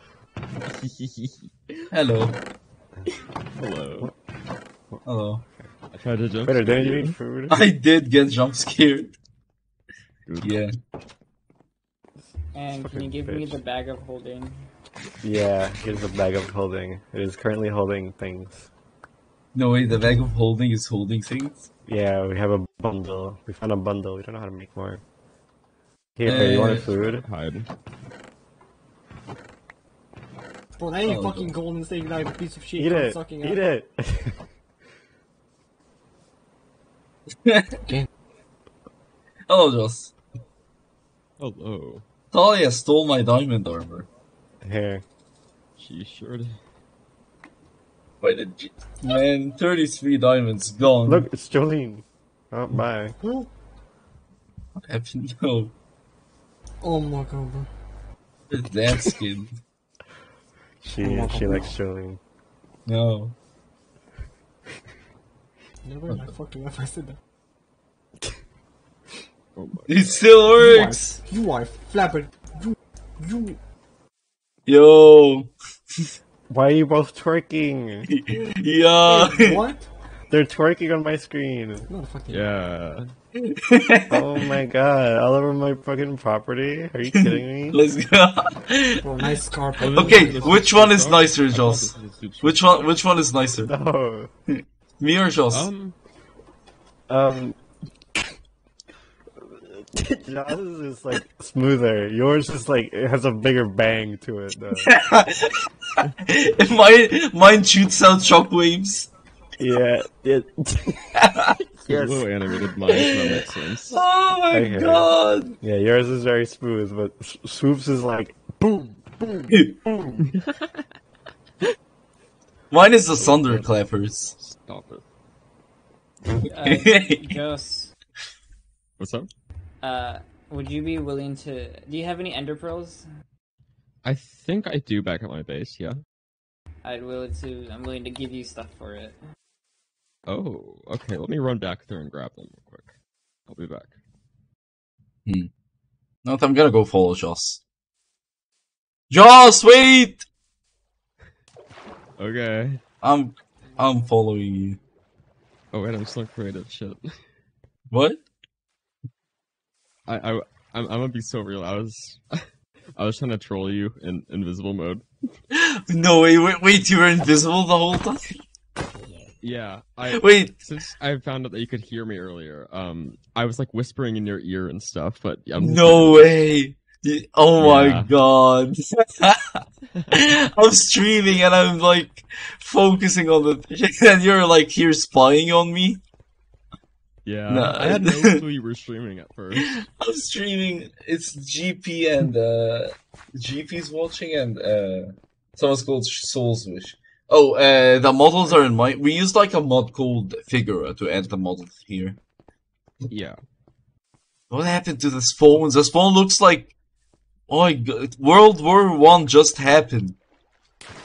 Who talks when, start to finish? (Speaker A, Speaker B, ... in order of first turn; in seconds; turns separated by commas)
Speaker A: 0.7-1.5, Speaker B: 1.9-2.4, Speaker A: 3.6-4.1, Speaker B: 5.0-5.4, Speaker A: 5.9-7.2, Speaker C: 6.4-7.6, Speaker B: 7.5-9.2, Speaker A: 10.2-10.5, Speaker B: 10.4-10.7, Speaker D: 12.5-14.7, Speaker C: 12.8-13.6, Speaker C: 15.2-18.7, Speaker B: 19.6-21.7, Speaker C: 21.9-25.0, Speaker C: 26.2-27.2, Speaker B: 26.2-26.9, Speaker A: 26.4-27.7, Speaker E: 30.8-33.6, Speaker B: 31.0-31.5, Speaker C: 32.8-34.4, Speaker B: 37.4-37.9, Speaker B: 39.5-40.1, Speaker A: 41.4-42.0, Speaker B: 42.3-44.1, Speaker C: 44.6-45.0, Speaker A: 45.8-46.6, Speaker B: 48.2-51.2, Speaker C: 51.0-53.1, Speaker B: 54.8-55.7, Speaker E: 56.8-57.7, Speaker B: 58.5-59.6, Speaker C: 60.8-62.2, Speaker A: 61.0-61.7, Speaker E: 61.2-61.6, Speaker B: 62.9-63.4, Speaker E: 65.8-67.2, Speaker A: 69.5-70.3, Speaker B: 69.9-71.2, Speaker E: 70.6-73.6, Speaker B: 74.7-76.1, Speaker C: 76.5-78.1, Speaker B: 78.1-79.6, Speaker E: 79.0-79.9, Speaker C: 80.3-81.9, Speaker E: 81.9-82.5, Speaker A: 82.3-83.1, Speaker B: 83.4-84.4, Speaker C: 84.1-87.8, Speaker B: 87.1-89.3, Speaker E: 89.0-90.6, Speaker A: 89.8-93.0, Speaker B: 89.8-93.7, Speaker C: 93.6-94.3, Speaker B: 94.5-95.7, Speaker A: 95.5-95.9, Speaker C: 97.1-97.6, Speaker C: 99.4-104.9, Speaker B: 104.8-109.1, Speaker C: 109.6-111.1, Speaker B: 111.1-111.6, Speaker A: 111.8-114.0, Speaker C: 111.9-112.3, Speaker B: 112.9-115.6, Speaker C: 114.5-119.5, Speaker B: 119.5-119.8, Speaker A: 120.2-120.8, Speaker B: 122.7-124.3, Speaker A: 124.4-125.0, Speaker B: 126.4-127.4, Speaker D: 126.5-127.9, Speaker A: 129.0-129.3, Speaker D: 129.8-133.1, Speaker A: 134.0-136.0, Speaker D: 136.8-139.2, Speaker A: 140.3-142.9, Speaker A: 143.5-143.9, Speaker B: 146.2-147.6, Speaker B: 149.1-150.2, Speaker A: 152.2-152.8, Speaker B: 153.0-154.8, Speaker A: 155.7-157.2, Speaker B: 157.9-158.2, Speaker A: 160.1-165.1, Speaker B: 165.5-168.4, Speaker A: 169.4-176.4, Speaker B: 170.1-170.5, Speaker B: 175.6-186.0, Speaker A: 177.6-178.1, Speaker A: 179.9-180.2, Speaker A: 187.2-189.8, Speaker B: 187.5-188.4, Speaker B: 189.5-202.2, Speaker A: 203.1-203.4, Speaker B: 204.5-206.7, Speaker B: 207.5-210.2